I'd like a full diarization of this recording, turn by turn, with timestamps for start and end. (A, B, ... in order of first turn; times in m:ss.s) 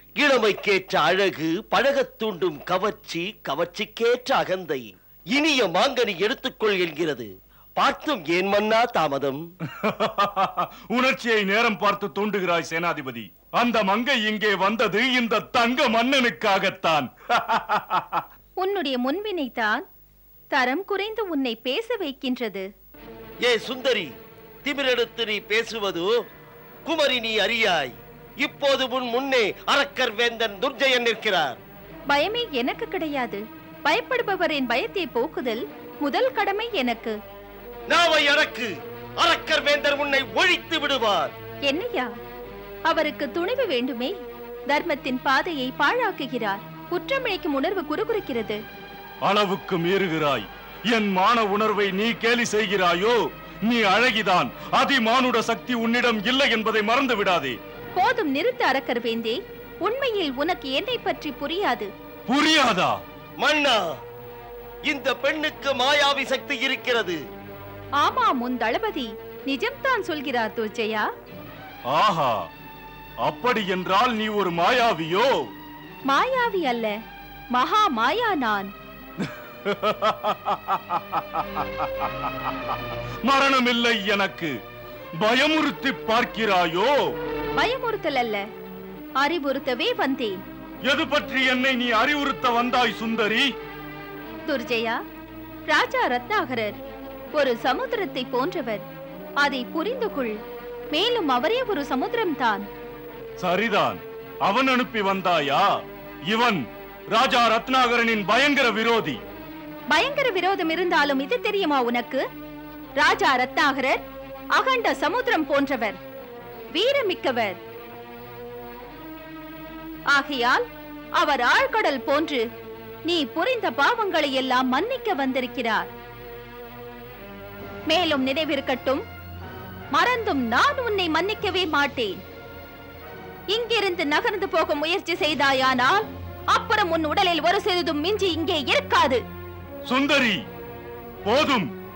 0:00.2-0:09.4 A
0:09.8-0:18.2 B
0:18.6-0:19.8 C
0:20.5-0:22.6 C
0:23.4-0:24.1 A
0:24.6-0:26.1 A
0:26.9-0:31.6 A
0:32.1-0:37.1 C
0:37.9-0:38.7 A
0:39.2-0:41.3 A
0:41.7-0:42.1 C
0:42.9-0:44.1 C
0:44.7-0:48.6 C
0:49.2-0:57.6 B
0:58.0-1:01.9 C
1:02.3-1:03.0 B
1:03.4-1:03.8 A
1:04.9-1:07.2 A
1:08.0-1:11.0 C
1:11.9-1:12.4 B
1:13.2-1:15.3 B
1:16.1-1:16.9 C
1:17.6-1:18.7 C
1:19.2-1:22.5 B
1:23.2-1:24.5 B
1:25.2-1:26.9 B
1:27.6-1:28.4 C
1:29.2-1:30.4 C
1:30.9-1:33.4 B
1:34.5-1:35.0 C
1:35.7-1:36.8 C
1:37.4-1:38.8 C
1:39.4-1:40.3 C
1:40.9-1:42.6 C
1:43.4-1:45.6 B
1:46.3-1:46.6 B
1:47.1-1:49.2 B
1:49.9-1:52.2 C
1:53.0-1:54.0 C
1:54.6-1:56.0 C
1:56.7-1:57.6 C
2:00.1-2:00.6 C
2:01.2-2:02.4 C
2:03.1-2:05.9 C
2:07.9-2:09.0 C
2:09.9-2:12.2 C
2:13.5-2:19.2 C
2:19.9-2:20.4 B
2:21.3-2:21.7 B